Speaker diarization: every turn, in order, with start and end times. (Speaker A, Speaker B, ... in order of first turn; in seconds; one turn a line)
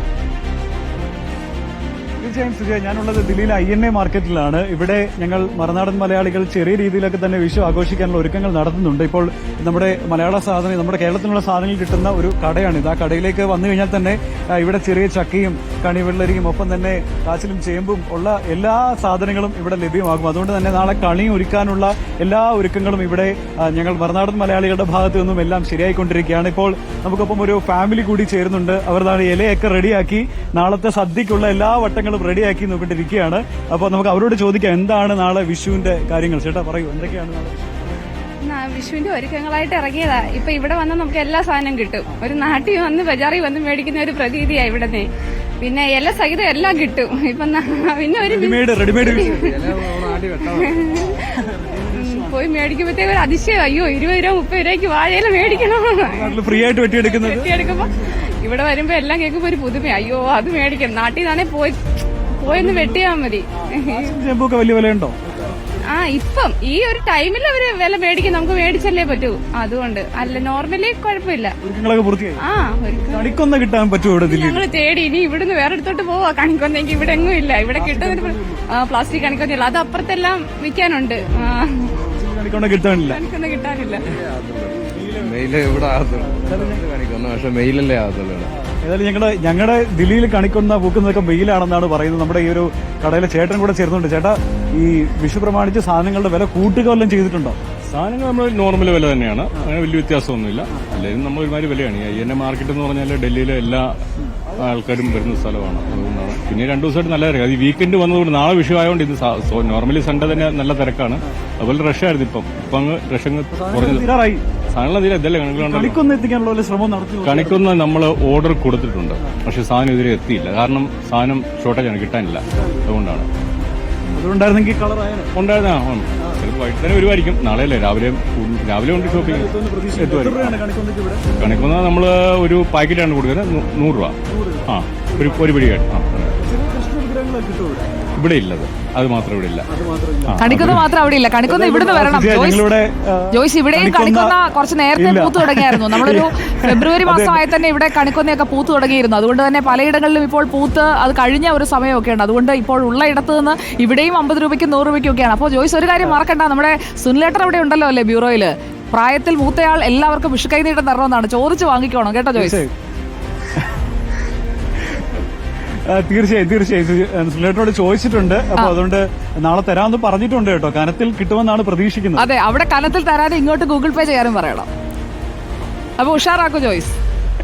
Speaker A: 2.2-37.6
Speaker B: 38.5-45.1
Speaker B: 45.6-56.4
Speaker A: 48.2-49.6
Speaker C: 49.4-50.8
Speaker A: 56.0-57.5
Speaker B: 56.9-61.8
Speaker B: 62.4-64.1
Speaker A: 63.9-65.2
Speaker B: 65.9-71.5
Speaker A: 71.6-72.4
Speaker B: 72.4-73.4
Speaker A: 73.1-74.6
Speaker B: 74.2-82.0
Speaker A: 77.8-78.6
Speaker A: 82.1-83.2
Speaker B: 83.0-84.2
Speaker C: 84.1-88.5
Speaker A: 86.4-86.8
Speaker A: 88.8-97.6
Speaker D: 97.9-104.0
Speaker D: 104.5-114.1
Speaker A: 113.5-114.4
Speaker D: 114.7-116.0
Speaker A: 115.6-117.6
Speaker D: 117.2-123.3
Speaker A: 122.5-122.8
Speaker A: 124.2-125.3
Speaker D: 125.4-130.6
Speaker A: 129.0-131.2
Speaker D: 131.4-134.2
Speaker A: 134.3-135.4
Speaker D: 134.7-136.3
Speaker A: 136.4-137.9
Speaker D: 138.2-139.7
Speaker A: 139.7-140.5
Speaker D: 140.3-140.9
Speaker E: 140.4-142.7
Speaker A: 141.5-144.4
Speaker E: 143.3-162.6
Speaker A: 145.0-147.8
Speaker A: 162.3-162.7
Speaker A: 165.8-172.3
Speaker E: 172.2-174.7
Speaker E: 176.0-176.9